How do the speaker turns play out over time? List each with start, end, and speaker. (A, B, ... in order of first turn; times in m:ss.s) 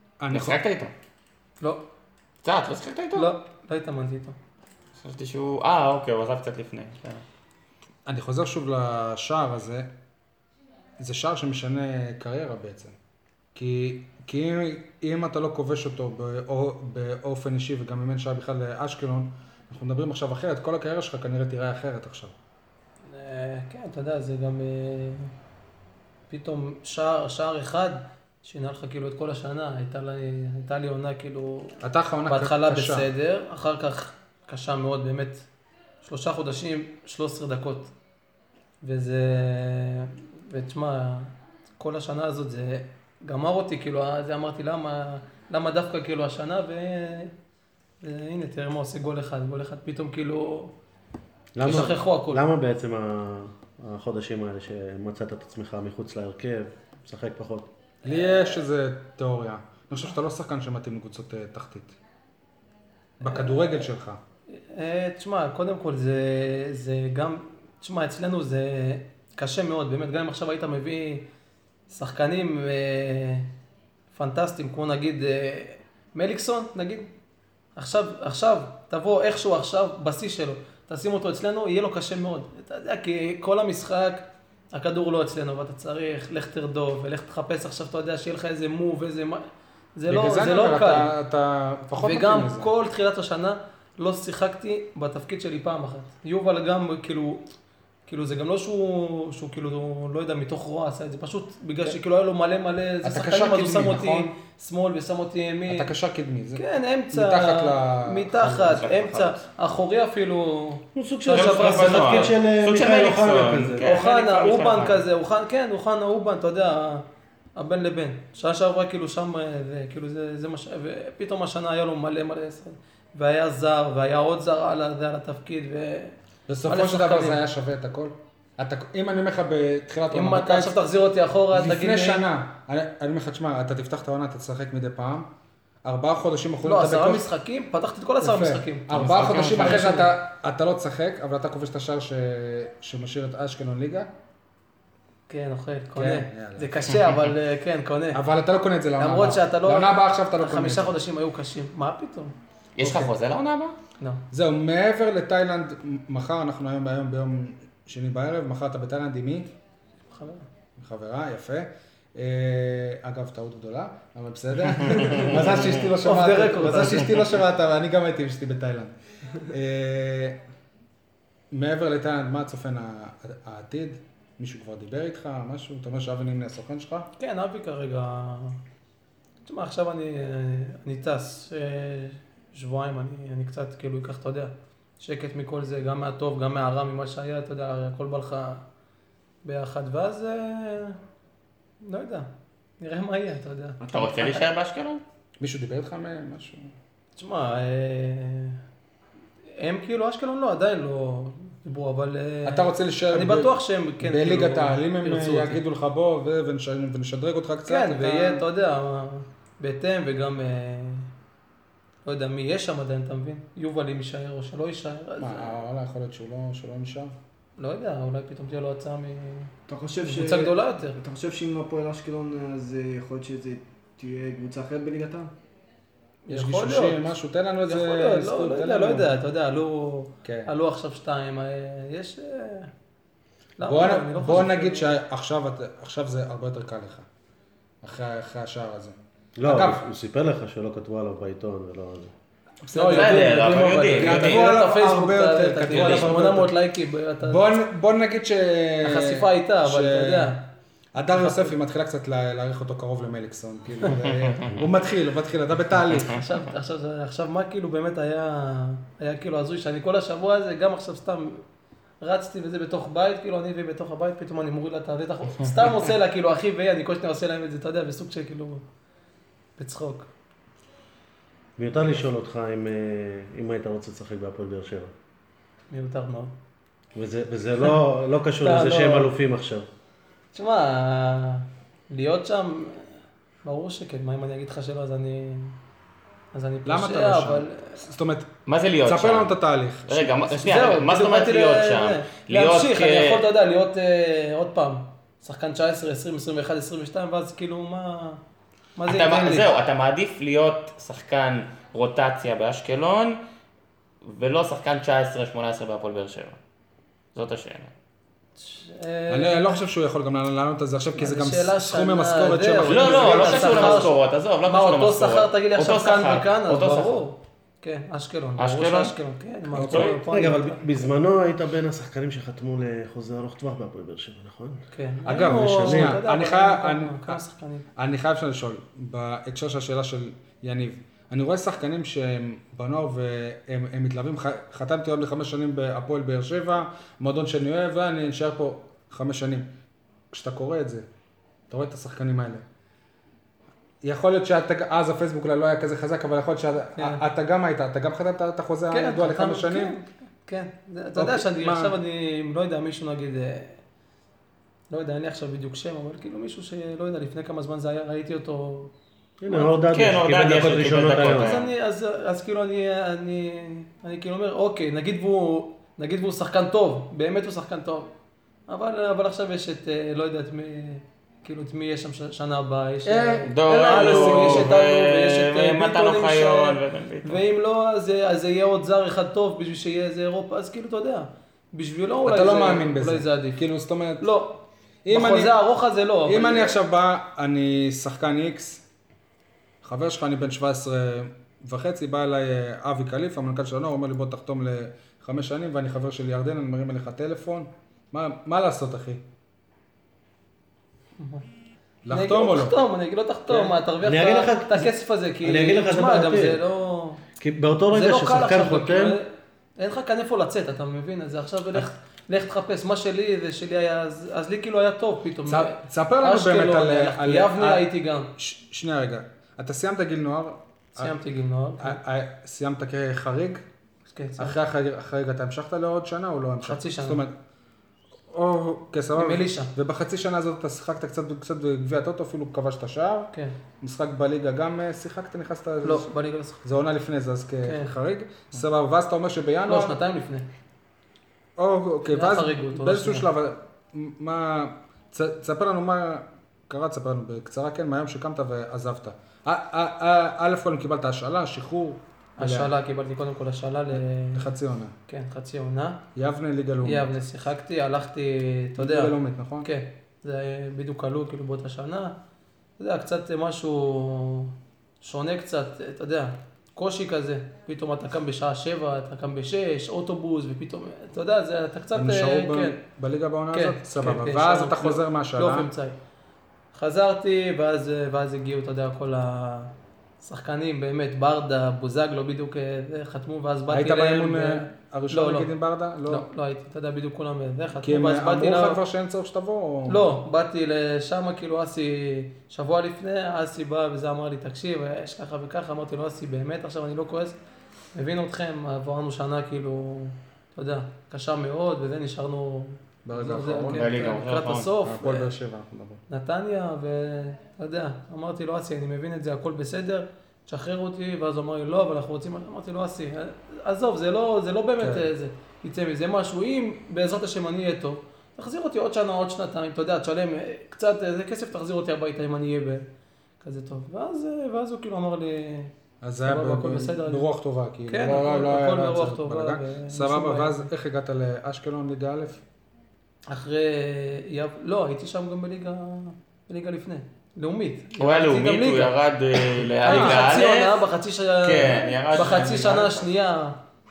0:00.2-0:00.6 A
0:00.3-0:00.9 B
0:02.4-0:03.3 B
0:03.1-0:04.4 C
0:04.9-0:07.2 B
0:08.0-0:09.9 A
0:11.0-0:12.9 A
0:13.5-0:22.3 A
0:23.0-0:25.3 C
0:26.3-0:35.5 C
0:31.8-0:33.1 A
0:36.0-0:37.9 C
0:38.8-0:47.3 C
0:48.0-0:50.7 C
0:51.5-0:57.7 D
0:51.6-0:52.4 C
0:58.0-1:02.0 A
0:58.1-0:58.6 C
1:03.2-1:04.2 A
1:03.2-1:03.7 C
1:04.5-1:11.3 C
1:11.9-1:13.5 C
1:14.1-1:17.1 C
1:17.8-1:29.4 C
1:30.0-1:31.1 C
1:30.1-1:32.7 A
1:32.0-1:37.4 C
1:38.1-1:45.9 C
1:43.0-1:44.3 A
1:45.7-1:48.9 A
1:46.6-1:52.3 C
1:48.6-1:49.4 B
1:50.9-1:53.9 D
1:51.3-1:55.0 B
1:53.8-1:57.0 C
1:57.6-2:07.4 C
2:06.5-2:10.8 A
2:10.1-2:12.3 C
2:11.5-2:15.3 A
2:15.8-2:17.3 A
2:16.6-2:20.1 C
2:18.2-2:24.1 A
2:18.9-2:19.8 B
2:25.3-2:28.2 C
2:26.0-2:26.9 A
2:28.1-2:31.0 A
2:29.0-2:32.3 C
2:32.8-2:33.8 B
2:32.8-2:33.1 A
2:34.3-2:39.5 A
2:40.1-2:40.4 C
2:40.8-2:48.9 A
2:46.0-2:47.2 C
2:49.5-2:50.4 A
2:51.5-2:57.1 A
2:57.2-2:58.6 C
2:59.4-3:08.6 C
3:09.4-3:11.0 C
3:11.8-3:12.3 C
3:12.8-3:14.4 C
3:13.8-3:14.4 E
3:13.9-3:15.0 B
3:15.4-3:16.7 A
3:17.2-3:18.6 C
3:19.6-3:25.6 C
3:22.4-3:28.4 A
3:27.7-3:31.1 C
3:32.0-3:35.6 C
3:35.2-3:37.1 A
3:37.6-3:41.0 C
3:39.7-3:45.3 E
3:46.3-3:47.1 C
3:46.3-3:49.1 A
3:47.7-3:52.7 C
3:50.2-3:50.5 A
3:53.6-3:54.9 C
3:53.6-3:57.0 A
3:57.8-3:59.8 A
3:59.4-4:02.1 D
4:02.6-4:03.4 A
4:02.7-4:07.6 C
4:02.8-4:04.5 B
4:04.0-4:06.5 A
4:05.7-4:06.2 B
4:07.2-4:10.4 A
4:08.8-4:10.4 C
4:10.9-4:16.2 A
4:11.1-4:11.5 C
4:14.0-4:14.5 B
4:16.0-4:21.4 C
4:22.0-4:28.6 C
4:29.6-4:30.1 C
4:31.6-4:34.9 D
4:35.7-4:36.3 C
4:36.9-4:39.6 D
4:38.4-4:39.1 C
4:40.3-4:42.9 C
4:43.4-4:45.6 C
4:46.3-4:47.8 C
4:46.6-4:48.3 A
4:48.4-4:49.4 B
4:48.8-4:50.4 A
4:49.9-4:53.2 B
4:50.4-4:58.2 C
4:58.8-4:59.5 C
4:58.9-5:03.2 B
5:04.0-5:06.4 B
5:07.1-5:07.7 B
5:08.4-5:09.6 C
5:09.1-5:13.9 A
5:11.0-5:13.9 C
5:12.6-5:17.0 B
5:14.4-5:20.9 C
5:18.4-5:19.0 B
5:19.5-5:20.0 B
5:19.5-5:20.0 A
5:20.0-5:24.6 D
5:24.7-5:27.6 C
5:25.0-5:27.2 A
5:25.5-5:26.0 D
5:27.8-5:39.5 A
5:40.1-5:40.8 A
5:41.5-5:42.4 A
5:43.8-5:49.7 A
5:46.8-5:47.0 C
5:48.7-5:53.6 C
5:50.9-5:51.7 A
5:54.7-5:58.7 C
5:59.2-6:01.4 D
5:59.3-5:59.5 C
5:59.7-6:01.5 B
6:01.1-6:07.9 C
6:08.5-6:23.4 C
6:12.8-6:14.5 A
6:13.2-6:17.2 B
6:22.0-6:24.1 A
6:24.0-6:26.6 C
6:24.8-6:25.4 A
6:26.0-6:28.6 A
6:29.6-6:39.0 A
6:41.0-6:41.2 C
6:41.8-6:42.6 A
6:41.9-6:47.0 C
6:43.3-6:44.7 D
6:45.2-6:46.4 D
6:47.2-6:49.0 D
6:47.7-6:49.0 C
6:49.6-6:58.1 C
6:55.2-7:00.9 A
7:00.7-7:01.8 C
7:01.6-7:03.4 A
7:03.9-7:04.4 C
7:04.2-7:07.1 A
7:06.4-7:07.0 C
7:08.1-7:15.9 A
7:09.0-7:09.5 C
7:15.6-7:16.4 C
7:16.4-7:19.8 A
7:17.4-7:17.7 C
7:19.4-7:20.3 C
7:21.4-7:32.5 A
7:21.9-7:23.1 C
7:32.2-7:34.2 C
7:33.7-7:34.7 A
7:34.9-7:35.8 C
7:35.9-7:36.9 A
7:36.6-7:42.0 C
7:38.6-7:39.5 A
7:42.6-7:52.6 C
7:51.7-7:55.5 A
7:53.3-7:55.8 C
7:56.5-8:05.3 C
8:03.5-8:06.0 A
8:05.8-8:08.6 C
8:07.6-8:09.9 A
8:09.7-8:17.2 C
8:17.7-8:25.1 C
8:22.8-8:23.6 A
8:23.5-8:24.5 B
8:24.6-8:25.8 A
8:25.9-8:42.6 C
8:34.6-8:34.9 A
8:43.2-8:45.5 C
8:45.8-8:52.2 A
8:46.0-8:47.0 C
8:47.7-8:50.5 C
8:53.1-8:58.8 C
8:57.8-9:00.6 B
8:59.6-9:03.4 C
8:59.6-9:00.1 A
9:01.2-9:02.9 B